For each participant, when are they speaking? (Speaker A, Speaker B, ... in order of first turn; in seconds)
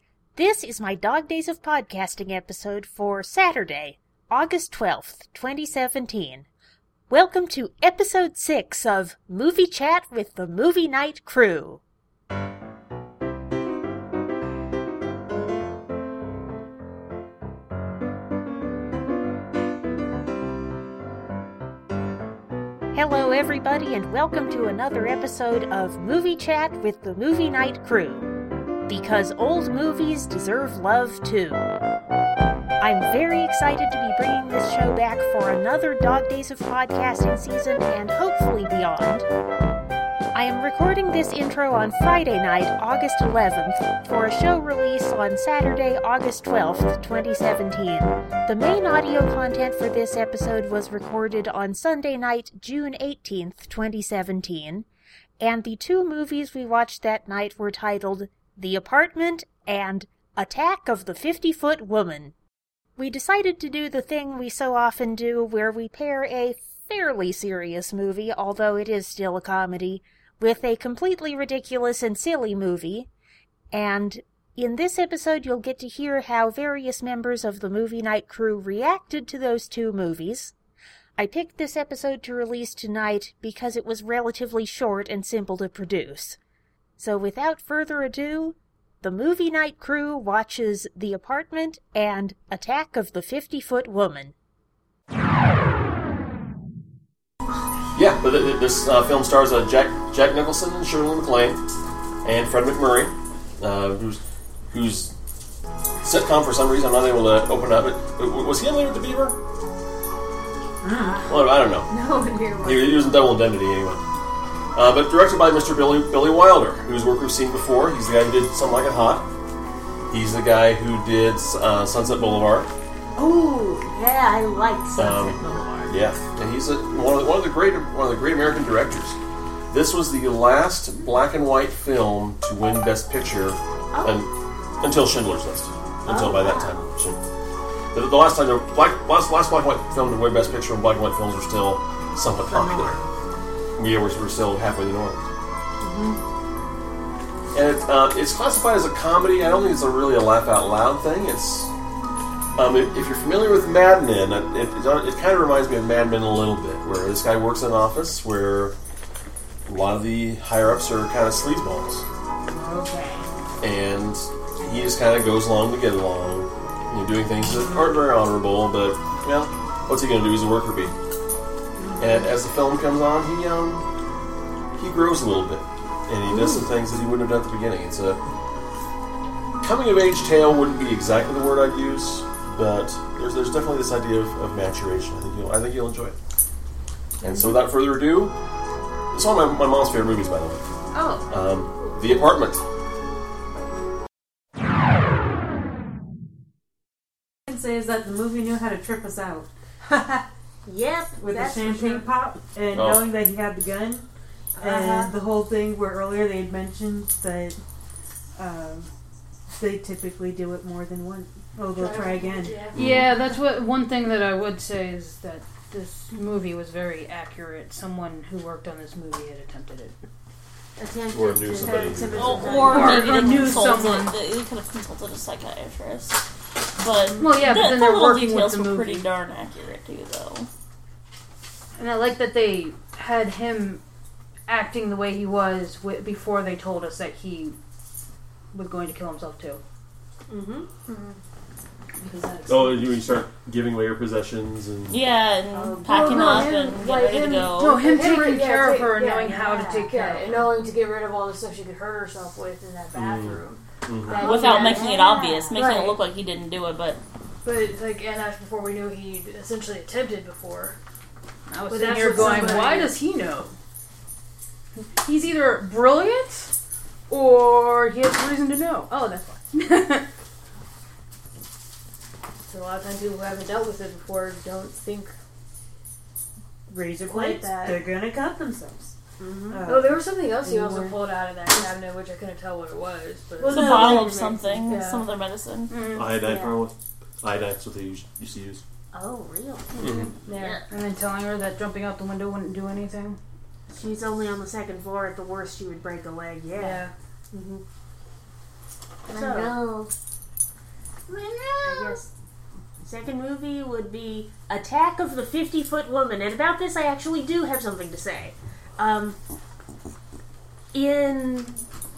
Speaker A: 0.3-6.5, 7.1-11.8, 22.9-28.3, 28.9-31.6, 32.8-39.2, 40.3-54.9, 55.4-62.3, 63.0-73.1, 73.7-80.5, 81.2-86.4, 87.0-94.3
Speaker B: 97.9-101.6, 102.2-105.1, 106.0-109.4, 111.3-111.9, 112.6-114.0, 114.7-119.3, 120.1-122.7, 125.0-129.2, 129.7-134.3, 134.8-137.2, 137.9-143.0, 143.8-145.2, 147.5-151.7, 152.6-158.7, 159.7-162.1, 163.6-170.9, 172.0-173.8, 174.8-178.2, 179.6-186.2, 187.2-188.3, 189.1-190.6, 191.3-192.6, 202.7-203.1, 212.7-213.1, 221.1-222.7, 242.4-245.0, 252.9-254.2, 285.9-288.6, 289.8-290.1
Speaker C: 110.8-111.2, 197.5-200.2, 201.2-204.1, 204.6-207.6, 208.3-208.9, 209.5-212.8, 276.7-278.9, 279.5-281.0, 299.1-299.9, 301.1-302.0
Speaker D: 110.9-113.3, 123.2-125.9, 133.9-134.2, 136.1-136.7, 142.5-143.0, 145.8-146.2, 162.5-163.2, 171.8-172.3, 176.3-176.7, 187.2-187.6, 190.9-191.9, 200.6-202.1, 204.6-205.1, 220.8-223.5, 240.3-240.7, 245.5-246.5, 249.4-249.9, 254.3-255.7, 277.2-277.8, 279.2-279.7, 283.4-284.7, 286.2-286.6, 288.9-289.8, 290.3-290.6, 293.7-296.8, 299.1-299.6, 301.6-302.1, 302.8-309.2, 310.7-311.6
Speaker E: 211.8-212.8, 240.9-241.2, 245.9-254.8, 255.6-256.0, 257.4-260.8, 261.7-263.0, 272.4-275.1, 277.1-277.6, 279.7-284.1, 284.6-285.0, 290.2-290.6, 296.6-296.9
Speaker F: 212.8-220.0, 222.6-224.1, 227.2-229.1, 231.8-233.8, 234.5-237.6, 238.5-239.6, 242.0-242.9, 247.6-250.4, 261.5-263.5, 264.8-266.5, 267.1-270.1, 285.7-286.2, 289.8-290.0, 290.6-293.2
Speaker G: 222.2-230.5, 244.9-248.0, 254.2-257.0, 283.4-285.8